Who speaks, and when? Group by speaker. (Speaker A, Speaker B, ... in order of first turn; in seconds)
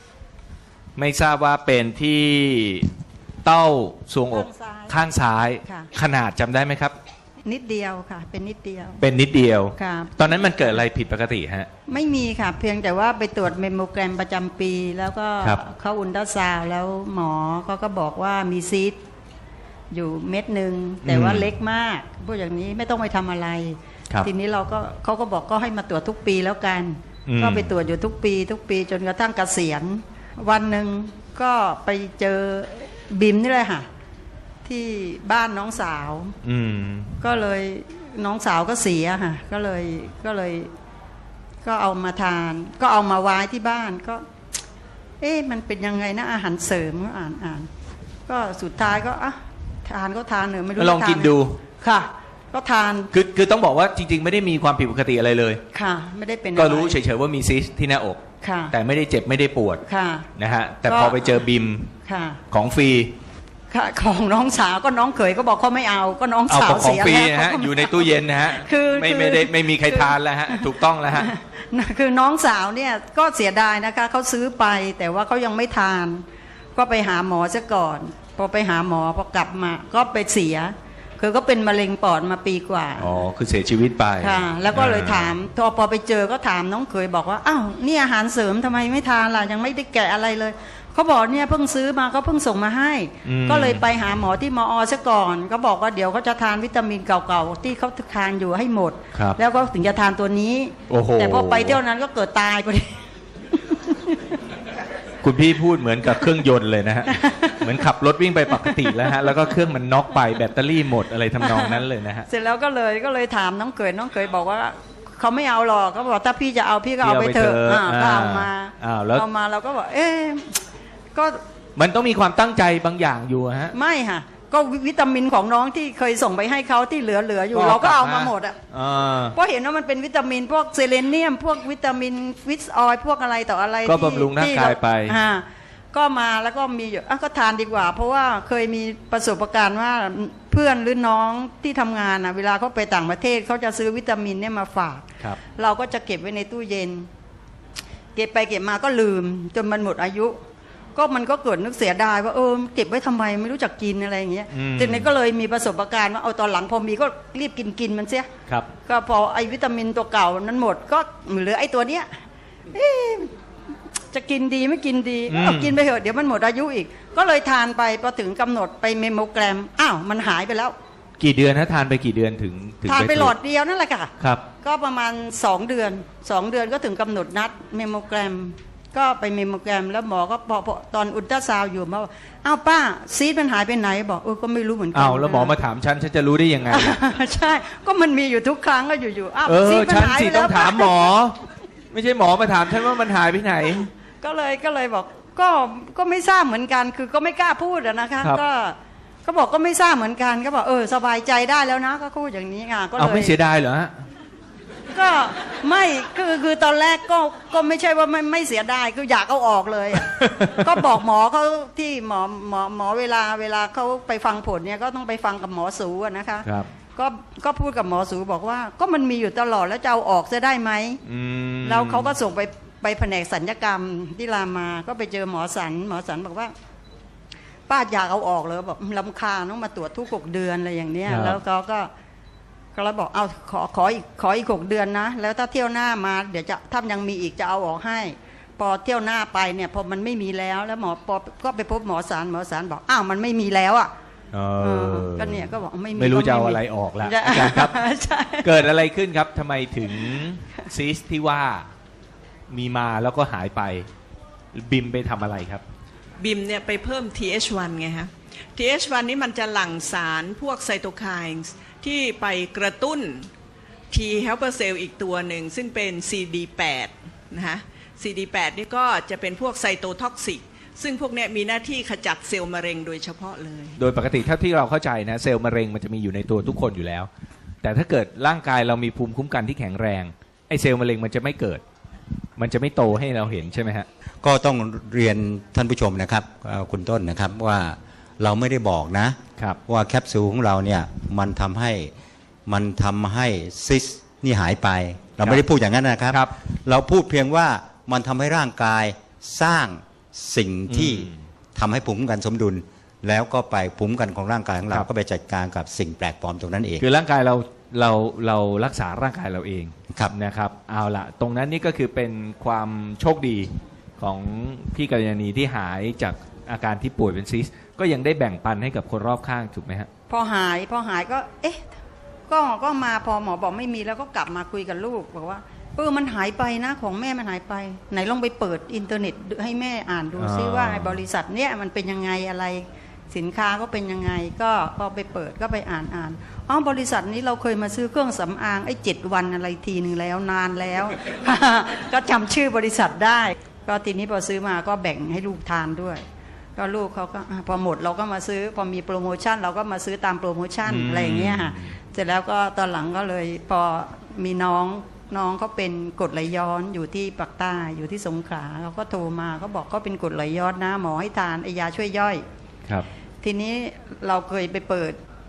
Speaker A: 1.0-2.9, 3.4-7.0, 9.0-11.7, 21.0-21.5, 27.2-27.7, 36.4-37.1, 50.8-51.6, 53.1-55.6, 56.5-59.8, 60.4-61.9, 62.5-63.1, 66.5-71.3, 83.0-85.3, 93.2-93.8, 100.9-101.8, 105.2-112.2, 117.0-119.2, 121.8-123.7, 127.5-129.3, 133.8-135.2, 154.5-155.1, 165.3-165.8, 171.2-173.3, 184.9-187.0, 189.4-191.4, 191.9-193.9, 203.0-204.0, 209.9-210.9, 216.4-216.7, 221.0-222.1, 231.1-231.4, 244.3-247.8, 248.4-251.7, 252.5-253.9, 254.5-255.6, 273.8-277.1, 277.6-281.6, 282.4-283.9, 300.7-301.2, 306.8-319.9, 330.2-331.0, 350.6-351.7
Speaker B: 4.3-4.9, 5.6-5.9, 7.4-9.0, 9.8-10.8, 11.9-19.0, 19.9-33.9, 34.6-36.3, 37.2-40.7, 41.6-44.2, 45.2-47.7, 48.3-53.1, 55.7-57.0, 58.4-58.7, 59.8-60.3, 60.8-61.3, 62.0-62.4, 63.7-76.2, 76.7-83.2, 84.2-103.0, 103.5-104.3, 107.1-107.7, 108.5-109.1, 111.4-120.6, 121.1-121.4, 123.7-128.6, 129.3-147.1, 148.1-150.4, 150.9-158.3, 158.8-162.1, 162.7-163.3, 164.1-170.7, 172.8-174.1, 174.6-185.5, 186.7-191.1, 194.2-203.3, 204.9-221.0, 221.6-226.5, 227.7-231.9, 232.7-243.9, 244.6-248.5, 320.1-321.6, 322.3-346.0, 346.6-362.2, 363.2-364.9
Speaker C: 256.2-263.3, 263.9-273.8
Speaker D: 284.2-291.9, 292.4-306.8